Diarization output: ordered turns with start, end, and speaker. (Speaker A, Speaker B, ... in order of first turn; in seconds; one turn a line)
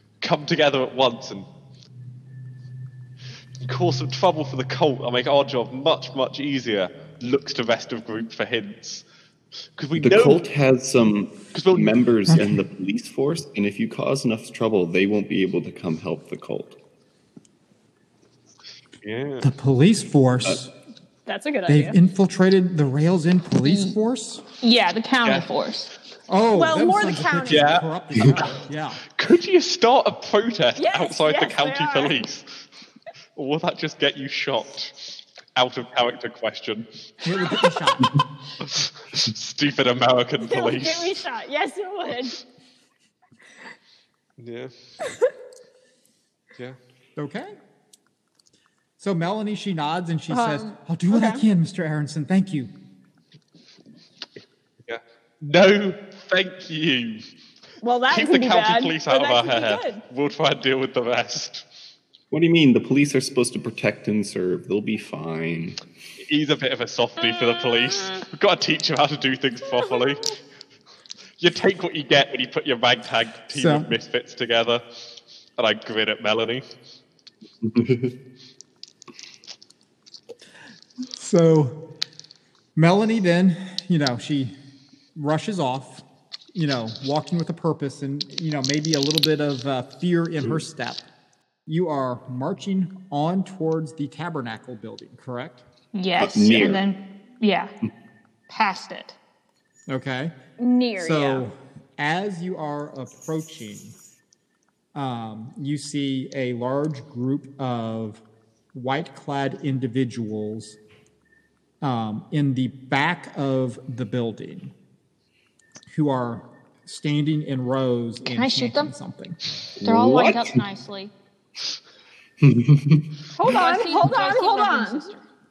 Speaker A: 0.2-1.5
Speaker A: 3.6-9.0
Speaker A: 9.8-10.4
Speaker B: 9.9-16.7
Speaker A: 11.5-12.6
Speaker A: 19.0-19.5
Speaker C: 19.4-20.7
Speaker D: 21.2-22.0
Speaker C: 21.7-24.4
Speaker E: 23.6-24.0
Speaker E: 24.6-25.9
Speaker C: 26.3-29.0
Speaker D: 26.5-27.7
Speaker A: 27.4-28.6
Speaker A: 29.1-32.6
Speaker D: 30.8-32.2
Speaker A: 33.4-36.9
Speaker C: 37.2-38.1
Speaker A: 38.6-41.2
Speaker D: 40.4-42.4
Speaker A: 44.4-44.7
Speaker C: 47.1-47.5
Speaker C: 49.0-52.7
Speaker D: 50.3-51.5
Speaker A: 54.9-57.2
Speaker D: 57.8-60.0
Speaker A: 58.1-61.6
Speaker B: 62.3-65.8
Speaker A: 66.2-70.4
Speaker A: 71.4-74.8
Speaker C: 73.5-73.9
Speaker A: 75.6-76.6
Speaker B: 77.6-78.1
Speaker C: 81.2-81.8
Speaker C: 82.8-84.5
Speaker C: 85.2-86.0
Speaker C: 86.5-91.0
Speaker C: 91.7-95.6
Speaker E: 95.9-97.7
Speaker B: 96.2-96.8
Speaker E: 98.5-99.2
Speaker C: 99.9-100.3
Speaker D: 100.6-101.5
Speaker C: 101.0-104.0
Speaker C: 104.9-108.2
Speaker C: 108.7-110.8
Speaker C: 111.8-114.7
Speaker C: 115.9-119.4
Speaker E: 118.2-118.9
Speaker B: 119.8-120.6
Speaker E: 119.8-121.1
Speaker B: 122.4-123.1
Speaker D: 123.3-125.1
Speaker E: 123.4-125.2